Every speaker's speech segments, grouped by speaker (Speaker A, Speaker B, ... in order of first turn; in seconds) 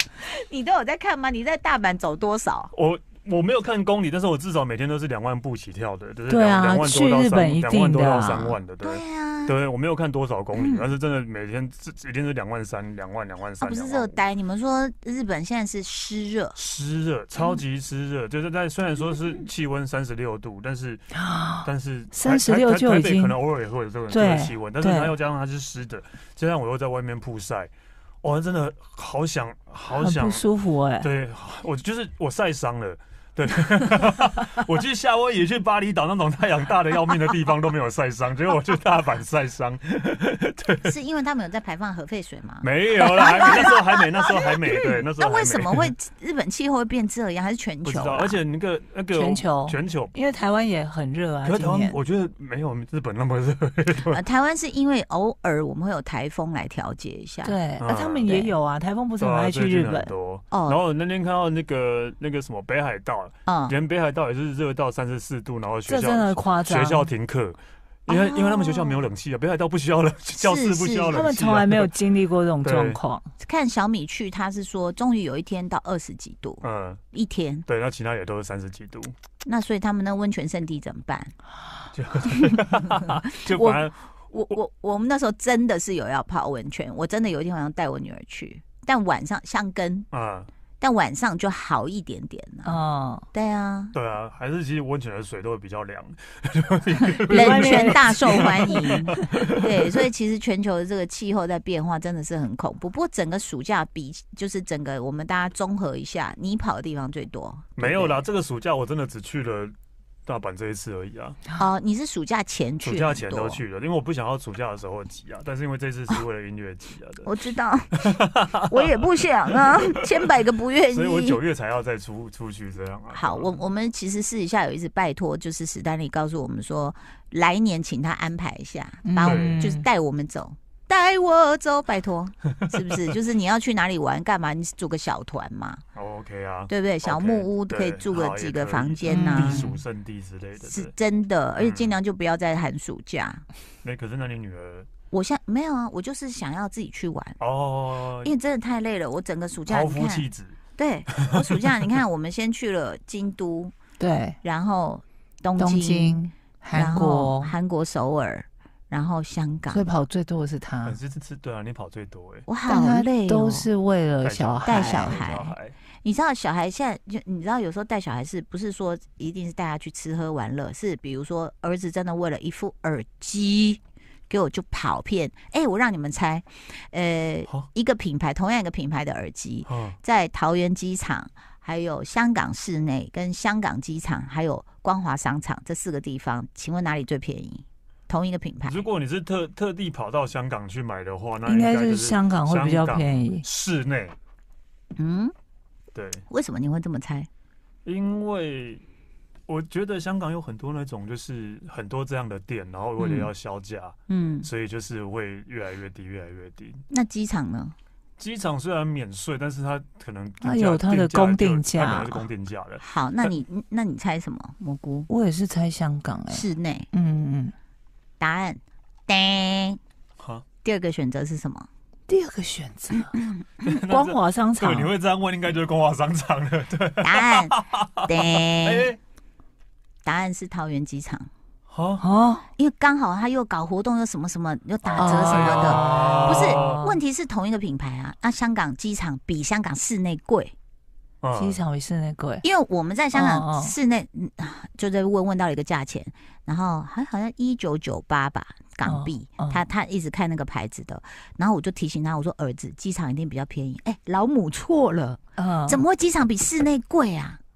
Speaker A: 0.2-2.7, 8.8-9.5, 10.6-10.9, 13.6-16.6, 40.8-48.4, 54.1-57.6, 60.5-60.8, 63.5-63.8, 68.1-69.0, 70.4-71.2, 73.4-77.7, 79.4-81.3, 82.5-90.1, 90.8-92.8, 93.3-93.9, 97.3-108.2, 111.6-113.6, 117.2-121.4, 123.1-135.8, 136.7-139.7, 140.7-143.4, 145.1-147.4, 148.2-153.8, 154.4-159.8, 162.5-163.7, 164.7-188.8, 195.0-195.3, 196.3-197.3, 203.0-203.3, 204.1-204.5, 206.9-207.8, 212.8-215.1, 216.3-216.9, 218.2-219.8, 220.6-221.7, 223.0-223.4, 227.0-228.9, 230.1-231.3, 232.6-240.5, 242.4-257.4
Speaker B: 2.7-14.2, 16.6-27.7, 28.2-30.4, 31.0-41.0, 42.6-45.9, 47.9-50.1, 51.4-54.2, 57.8-58.4, 59.2-71.9, 72.6-73.0, 76.6-77.0, 77.7-79.1, 81.9-84.0, 90.1-90.5, 93.9-100.0, 107.8-109.7, 110.3-111.4, 112.8-117.3, 117.9-120.3, 120.9-123.6, 129.2-129.6, 132.6-133.1, 135.9-140.9, 141.6-141.9, 143.8-144.9, 147.4-148.3, 149.7-150.6, 151.1-151.9, 160.8-162.5, 164.2-165.8, 179.7-180.0, 188.7-194.2, 195.9-196.2, 197.8-198.8, 199.5-206.8, 208.2-213.3, 220.2-220.4, 223.6-229.0, 231.7-232.0, 234.8-236.8, 241.2-241.6
Speaker C: 6.3-8.6, 21.1-23.4, 24.1-25.2, 29.9-31.1, 49.1-52.0, 57.4-60.1, 65.9-67.1, 71.1-73.3, 92.7-93.3, 97.3-99.0, 129.0-129.9, 139.1-139.8, 154.0-154.4, 155.6-157.5, 159.7-161.0, 162.7-165.2, 191.5-193.4, 210.4-212.2, 215.1-217.5, 222.1-223.1, 223.8-224.9, 232.0-232.5, 235.0-236.9, 241.3-242.4, 243.1-243.7, 248.8-249.6, 255.4-255.8